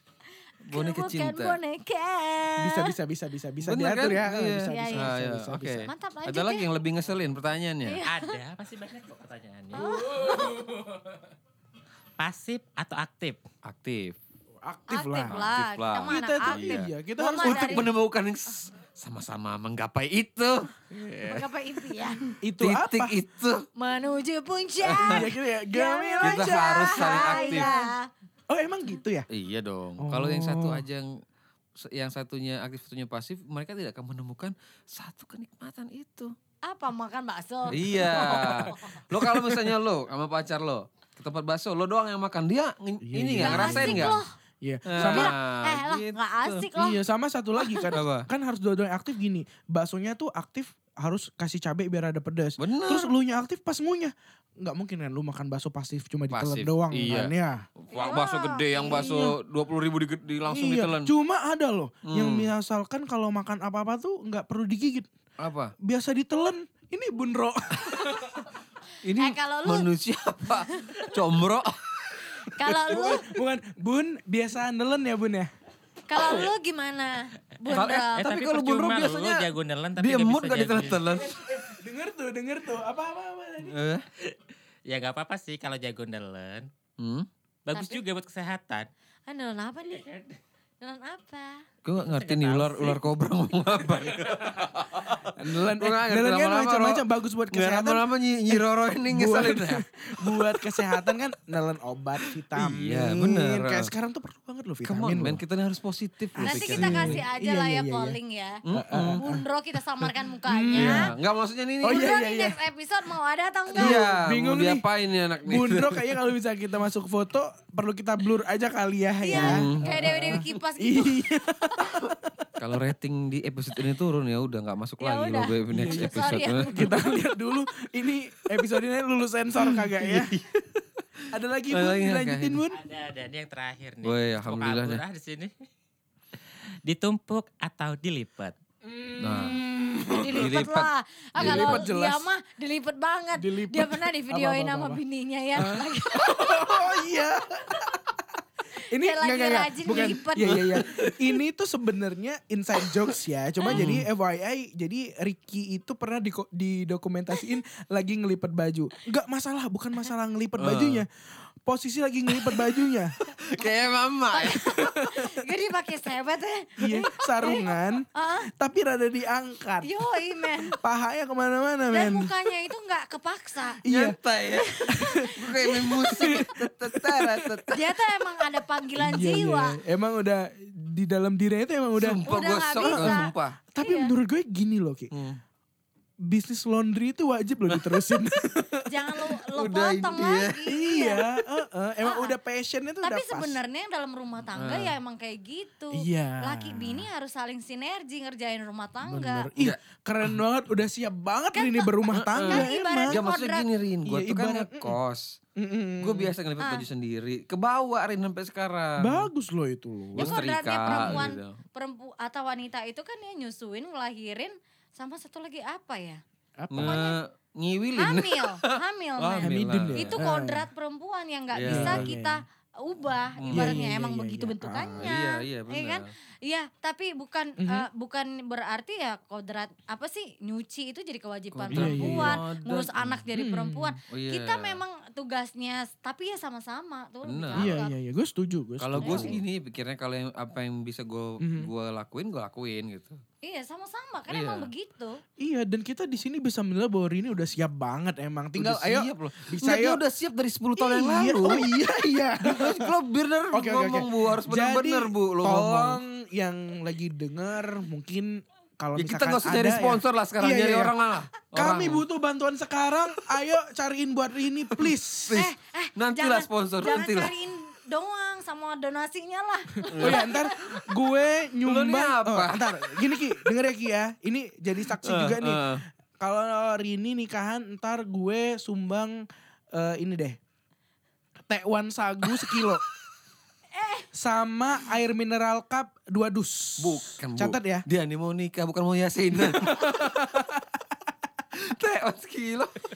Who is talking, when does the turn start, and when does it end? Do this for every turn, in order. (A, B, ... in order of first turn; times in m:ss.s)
0:00.6-0:01.6 A
0:00.7-0:02.9 B
0:02.6-0:05.9 C
0:03.6-0:08.0 A
0:04.6-0:05.2 B
0:05.8-0:06.7 B
0:07.8-0:08.4 B
0:08.0-0:09.8 D
0:09.7-0:10.7 B
0:09.7-0:11.2 C
0:12.2-0:13.4 D
0:13.6-0:14.2 A
0:14.6-0:15.4 C
0:14.9-0:17.9 B
0:15.3-0:20.7 A
0:16.1-0:17.9 C
0:20.9-0:21.4 C
0:21.2-0:22.2 B
0:22.4-0:23.1 C
0:22.6-0:23.7 A
0:23.8-0:28.1 B
0:24.8-0:25.3 A
0:25.0-0:27.8 C
0:26.2-0:27.7 A
0:28.5-0:29.3 C
0:29.3-0:31.1 A
0:30.0-0:30.8 C
0:31.8-0:36.3 A
0:36.6-0:39.4 B
0:37.7-0:44.2 A
0:43.0-0:45.3 C
0:43.4-0:44.3 B
0:44.8-0:46.7 A
0:45.0-0:47.0 B
0:46.7-0:57.6 C
0:47.6-0:47.9 B
0:47.9-0:48.2 A
0:52.6-0:53.1 A
0:56.3-1:01.1 A
0:57.9-0:59.3 B
0:58.9-0:59.3 C
1:00.5-1:05.1 C
1:02.1-1:02.5 A
1:05.4-1:05.7 A
1:05.8-1:08.4 C
1:09.0-1:12.3 A
1:09.2-1:09.9 B
1:10.5-1:11.1 B
1:12.5-1:13.4 B
1:12.6-1:15.5 C
1:16.1-1:18.3 B
1:16.2-1:16.5 A
1:17.7-1:21.5 A
1:18.2-1:21.1 D
1:21.2-1:23.7 C
1:23.6-1:24.0 A
1:24.8-1:26.7 D
1:27.0-1:27.3 A
1:27.6-1:28.9 D
1:27.7-1:28.0 B
1:29.3-1:30.1 B
1:30.8-1:31.6 B
1:31.8-1:41.2 A
1:32.0-1:33.0 D
1:35.3-1:45.4 C
1:42.5-1:43.9 A
1:44.8-1:47.2 A
1:46.4-1:48.2 C
1:46.4-1:48.6 B
1:48.7-1:49.2 A
1:48.7-1:49.4 C
1:49.2-1:51.1 B
1:50.0-1:51.1 C
1:50.7-1:52.2 A
1:51.8-1:52.6 C
1:51.8-1:54.0 B
1:53.7-1:54.8 C
1:53.7-1:56.2 A
1:55.4-2:02.7 C
1:59.2-2:01.2 B
1:59.3-1:59.9 A
2:02.6-2:07.2 A
2:05.0-2:07.0 B
2:05.7-2:10.4 C
2:09.6-2:10.4 A
2:11.2-2:12.6 A
2:11.3-2:12.8 C
2:12.7-2:15.5 D
2:14.0-2:15.0 A
2:16.7-2:18.5 D
2:18.8-2:20.5 C
2:19.2-2:19.6 A
2:20.2-2:26.9 B
2:20.2-2:21.8 A
2:21.4-2:22.3 C
2:23.3-2:25.0 C
2:25.6-2:28.2 C
2:28.8-2:41.1 C
2:28.8-2:30.8 B
2:30.5-2:31.4 A
2:33.6-2:33.9 B
2:33.7-2:34.1 A
2:40.6-2:41.0 A
2:41.6-2:43.2 C
2:42.3-2:42.8 A
2:43.3-2:44.9 A
2:44.3-2:48.5 B
2:44.7-2:45.4 C
2:46.8-2:49.9 C
2:49.8-2:50.8 B
2:50.6-2:52.3 C
2:51.9-2:53.8 B
2:53.8-2:54.2 C
2:53.8-2:58.0 A
2:54.6-2:56.5 B
2:54.9-2:55.3 C
2:56.0-2:57.6 C
2:57.7-2:59.8 B
2:59.0-3:05.1 C
3:01.9-3:03.6 A
3:02.2-3:04.1 B
3:05.1-3:05.4 A
3:06.2-3:08.9 C
3:07.7-3:08.2 A
3:08.8-3:11.3 B
3:09.5-3:10.8 A
3:10.6-3:13.6 C
3:12.0-3:12.3 B
3:13.0-3:19.5 B
3:14.5-3:14.9 A
3:15.9-3:17.0 C
3:19.0-3:23.2 C
3:19.6-3:20.4 A
3:21.5-3:23.7 B
3:22.1-3:25.4 A
3:24.0-3:25.0 C
3:25.6-3:26.3 C
3:26.0-3:29.3 A
3:26.6-3:26.8 B
3:29.0-3:31.2 C
3:30.1-3:31.6 A
3:30.2-3:36.2 B
3:36.6-3:37.0 C
3:36.7-3:40.2 A
3:36.8-3:37.2 B
3:38.0-3:57.9 B
3:39.4-3:40.7 C
3:41.5-3:42.1 A
3:41.6-3:42.4 C
3:43.4-3:43.8 A
3:43.5-3:45.1 C
3:45.0-3:46.1 A
3:47.6-3:47.9 C
3:51.5-3:53.2 A
3:51.7-3:52.4 C
3:53.3-3:53.9 C
3:54.1-3:54.8 A
3:57.2-3:57.8 A
3:57.6-3:59.4 C
3:58.8-4:03.2 A
3:59.0-3:59.4 B
4:01.4-4:01.7 C
4:03.4-4:05.2 B
4:04.3-4:04.7 A
4:05.4-4:10.0 C
4:08.6-4:11.9 A
4:10.8-4:12.9 C
4:12.4-4:16.0 A
4:13.5-4:20.9 C
4:19.0-4:22.0 A
4:21.5-4:25.4 C
4:25.3-4:27.3 A
4:25.3-4:30.8 B
4:29.9-4:30.4 A
4:29.9-4:40.4 C
4:31.6-4:32.6 A
4:34.9-4:35.8 A
4:41.4-4:42.8 C
4:43.7-4:44.1 B
4:44.1-4:47.8 C
4:46.8-4:50.3 A
4:49.3-4:50.8 C
4:51.5-4:52.8 A